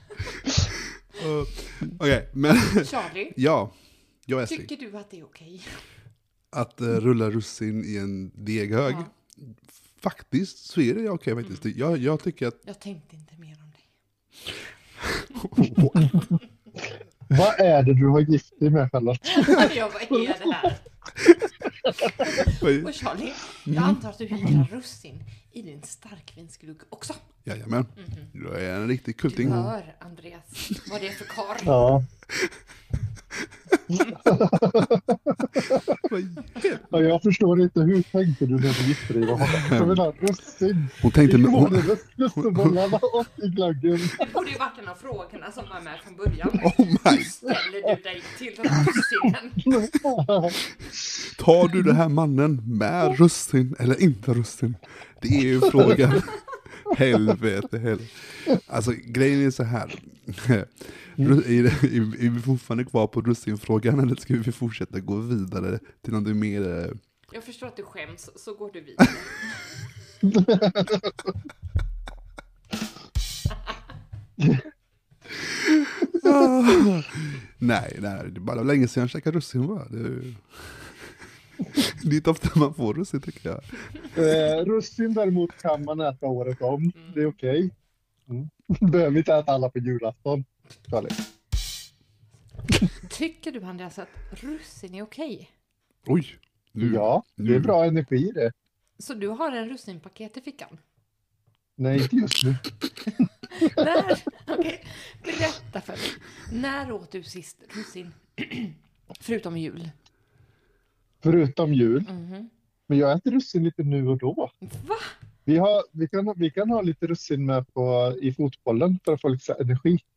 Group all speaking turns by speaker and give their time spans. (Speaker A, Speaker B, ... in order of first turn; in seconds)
Speaker A: 1.1-3.7, 4.3-4.7, 6.5-12.6, 15.0-16.2, 22.4-22.9, 23.7-24.0, 27.4-29.7, 36.0-36.9, 39.3-40.0, 41.0-42.9, 46.6-47.4, 51.3-67.0, 75.4-84.0, 96.1-97.8
Speaker B: 2.8-3.4, 4.5-5.8, 12.6-13.9, 15.8-16.4, 19.2-20.9, 22.2-27.2, 28.0-28.3, 29.3-31.9, 44.2-49.7, 67.3-69.8, 92.7-95.5, 99.0-100.8, 103.5-109.9, 112.0-112.5, 114.6-115.1
Speaker C: 17.3-20.5, 31.6-32.0, 34.0-36.0, 36.9-44.4, 49.6-51.2, 70.2-71.3, 74.4-74.7, 84.1-87.7, 88.3-91.2, 96.8-98.5, 101.8-102.7, 111.2-112.1, 112.9-114.5, 115.5-120.0